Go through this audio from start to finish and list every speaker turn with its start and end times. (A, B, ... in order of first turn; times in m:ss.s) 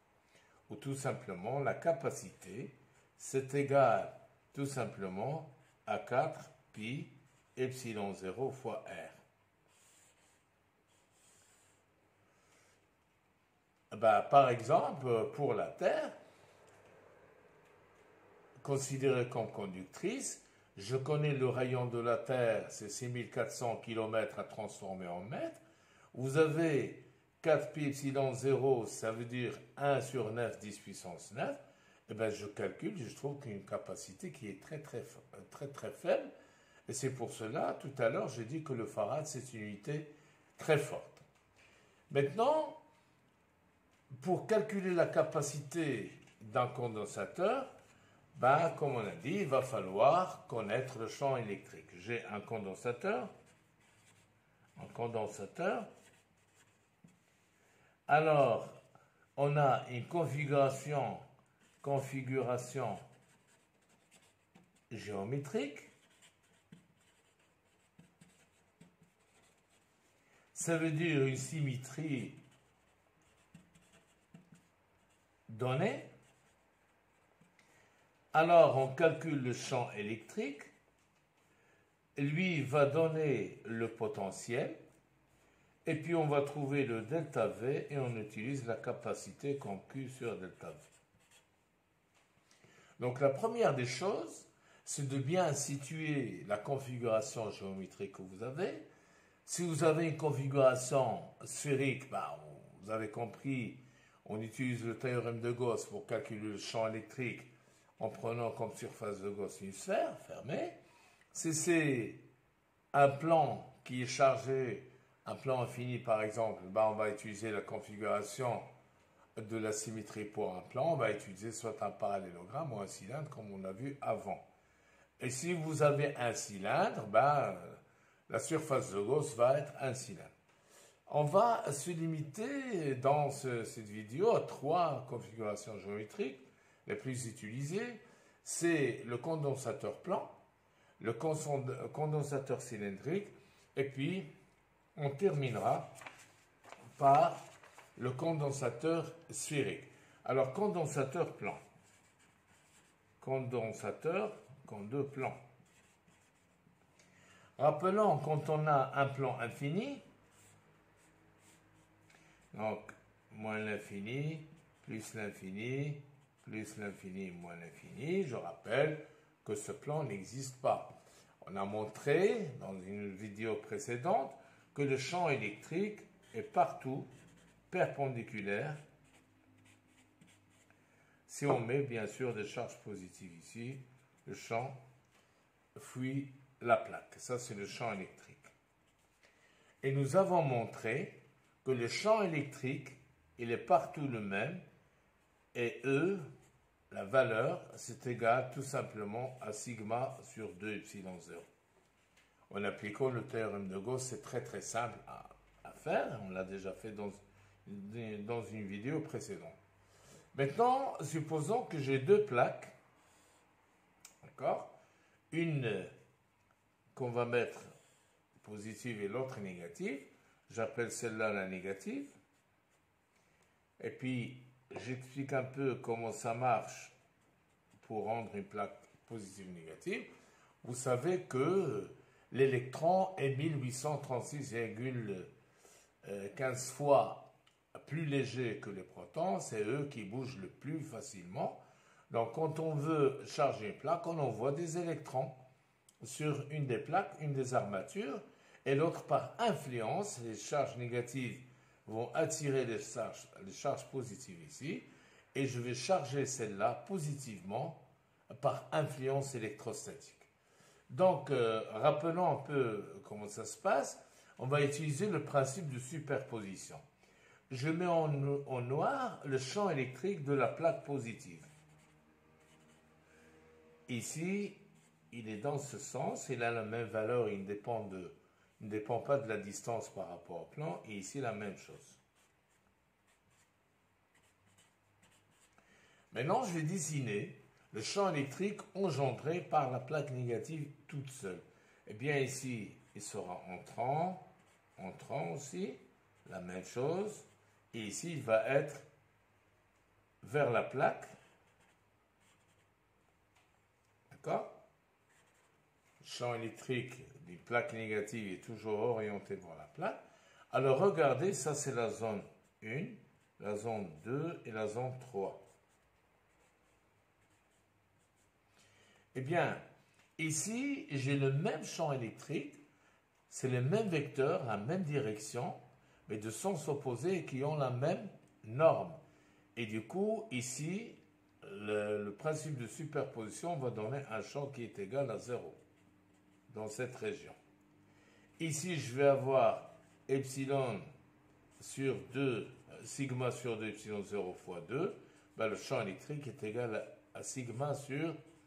0:00.7-0:09.2 A
0:13.9-0:16.1 A
0:18.6-0:25.6 A
0:26.1-0:36.3 A
0:36.9-0:41.2 A
0:42.1-0:42.8 A
0:44.1-0:47.7 A
0:48.3-0:53.3 A
0:54.8-0:55.9 A
0:58.1-0:58.8 A
0:59.4-1:01.2 A
1:01.8-1:03.0 A
1:04.9-1:05.9 A
1:10.5-1:12.4 A
1:15.5-1:16.1 A
1:18.3-1:20.7 A
1:22.2-1:24.8 A
1:25.8-1:30.9 A
1:33.0-1:38.8 A
1:39.4-1:50.8 A
1:51.3-1:52.2 A
1:52.9-1:58.7 A
1:59.4-2:04.4 A
2:05.2-2:10.3 A
2:11.1-2:20.3 A
2:21.0-2:24.3 A
2:25.0-2:25.9 A
2:27.0-2:27.4 A
2:28.0-2:31.6 A
2:33.2-2:35.4 A
2:37.6-2:40.0 A
2:42.5-2:57.1 A
2:57.7-2:58.8 A
3:01.3-3:04.8 A
3:05.7-3:08.5 A
3:09.8-3:14.6 A
3:15.5-3:16.2 A
3:16.9-3:21.5 A
3:22.5-3:29.6 A
3:30.3-3:32.7 A
3:34.2-3:34.7 A
3:35.3-3:35.9 A
3:36.9-3:37.7 A
3:38.4-3:42.1 A
3:43.8-3:46.9 A
3:47.8-3:50.1 A
3:50.6-3:55.3 A
3:56.0-4:05.4 A
4:06.0-4:20.3 A
4:20.9-4:26.8 A
4:27.5-4:31.5 A
4:33.9-4:34.6 A
4:35.1-4:42.0 A
4:46.1-4:58.9 A
5:00.2-5:01.2 A
5:04.1-5:04.5 A
5:06.0-5:15.4 A
5:19.1-5:19.6 A
5:20.2-5:22.6 A
5:23.3-5:29.0 A
5:29.6-5:35.6 A
5:36.5-5:37.4 A
5:38.4-5:40.9 A
5:41.6-5:48.2 A